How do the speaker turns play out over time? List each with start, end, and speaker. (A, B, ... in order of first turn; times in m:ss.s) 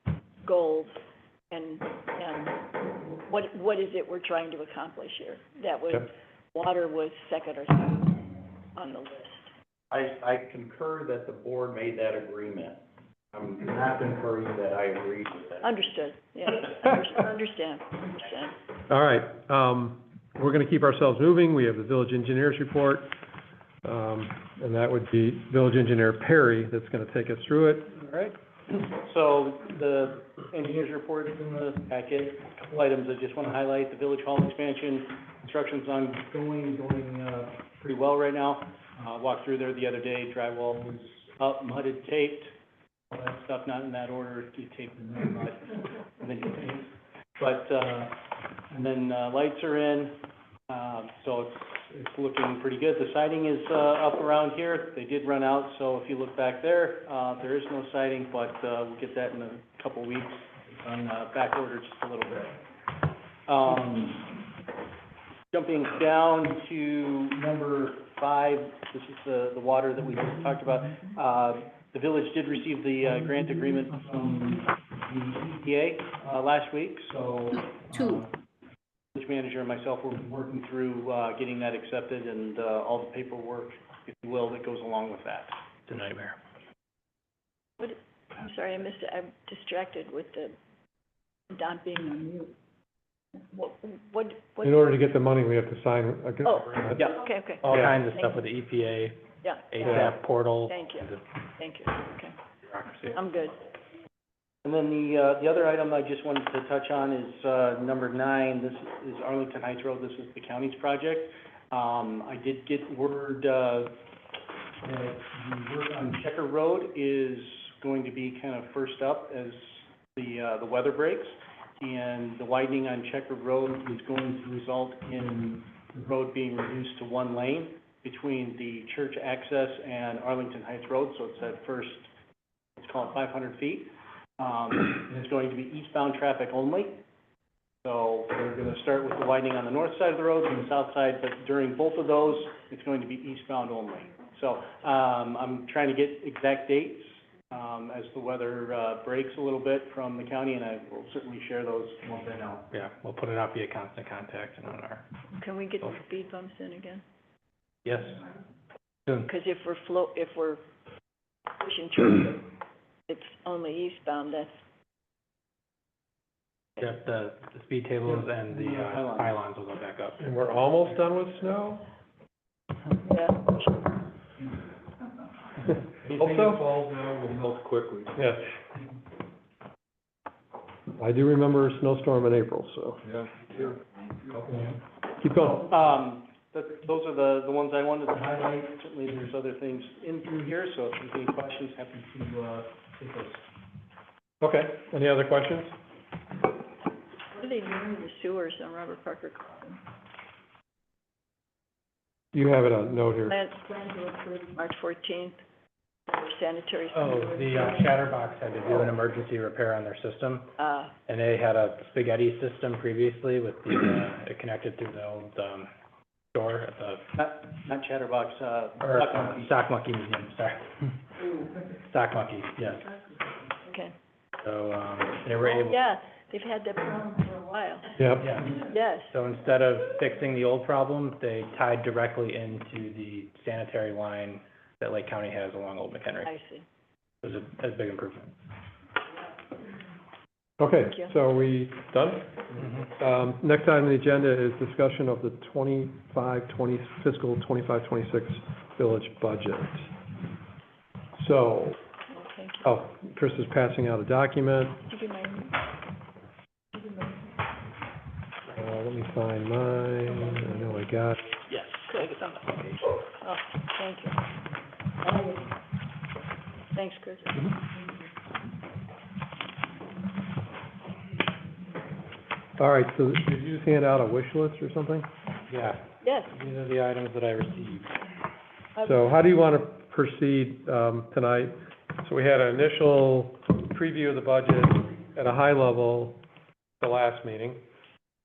0:00.4-0:01.0 A
0:01.5-0:09.5 A
0:09.9-0:12.8 B
0:13.3-0:15.6 B
0:15.6-0:18.5 A
0:18.9-0:23.1 C
0:23.8-0:27.9 C
0:28.0-0:42.5 D
0:43.1-0:48.2 D
0:48.7-1:02.6 D
1:03.5-1:04.4 D
1:05.5-1:18.3 D
1:19.1-1:25.6 D
1:25.9-1:26.4 E
1:27.8-1:30.6 A
1:31.5-1:32.5 A
1:33.4-1:34.8 A
1:34.6-1:37.0 C
1:36.4-1:37.6 A
1:37.0-1:41.2 E
1:37.7-1:37.9 C
1:39.4-1:40.1 A
1:39.8-1:40.1 C
1:40.7-1:42.4 A
1:42.6-1:43.1 E
1:43.1-1:43.6 A
1:44.6-1:53.9 D
1:54.8-2:12.1 D
2:12.8-2:17.0 D
2:17.8-2:32.6 D
2:32.7-2:35.0 E
2:35.4-2:37.0 A
2:37.8-2:38.2 E
2:39.2-2:40.6 A
2:41.6-2:42.5 A
2:43.1-2:44.5 A
2:46.8-2:50.4 E
2:48.1-2:49.3 D
2:50.2-2:51.8 C
2:53.0-2:53.9 A
2:56.1-2:57.9 D
2:56.1-2:56.7 C
2:58.1-2:58.5 C
3:01.0-3:03.0 C
3:04.3-3:04.7 D
3:05.1-3:05.7 C
3:05.7-3:13.4 D
3:14.4-3:15.7 C
3:17.3-3:19.8 A
3:22.3-3:23.4 C
3:23.3-3:25.4 A
3:26.1-3:28.0 A
3:26.9-3:30.5 E
3:30.6-3:30.9 A
3:31.1-3:35.7 E
3:36.3-3:37.0 E
3:37.2-3:39.5 D
3:38.8-3:40.9 E
3:41.8-3:42.9 E
3:43.7-3:43.9 A
3:44.4-3:45.8 E
3:45.4-3:49.1 A
3:48.0-3:48.3 C
3:48.2-3:56.3 E
3:56.2-3:56.6 A
3:57.2-3:58.4 E
4:00.6-4:09.9 C
4:00.8-4:01.1 A
4:11.2-4:11.8 C
4:12.1-4:12.7 A
4:12.6-4:14.8 C
4:14.8-4:15.6 A
4:18.5-4:21.3 C
4:21.5-4:22.8 E
4:21.9-4:22.3 A
4:23.2-4:24.2 A
4:25.0-4:25.4 A
4:26.7-4:27.5 A
4:32.6-4:35.1 C
4:35.5-4:38.0 E
4:36.0-4:36.3 A
4:38.8-4:46.2 C
4:46.8-4:47.6 C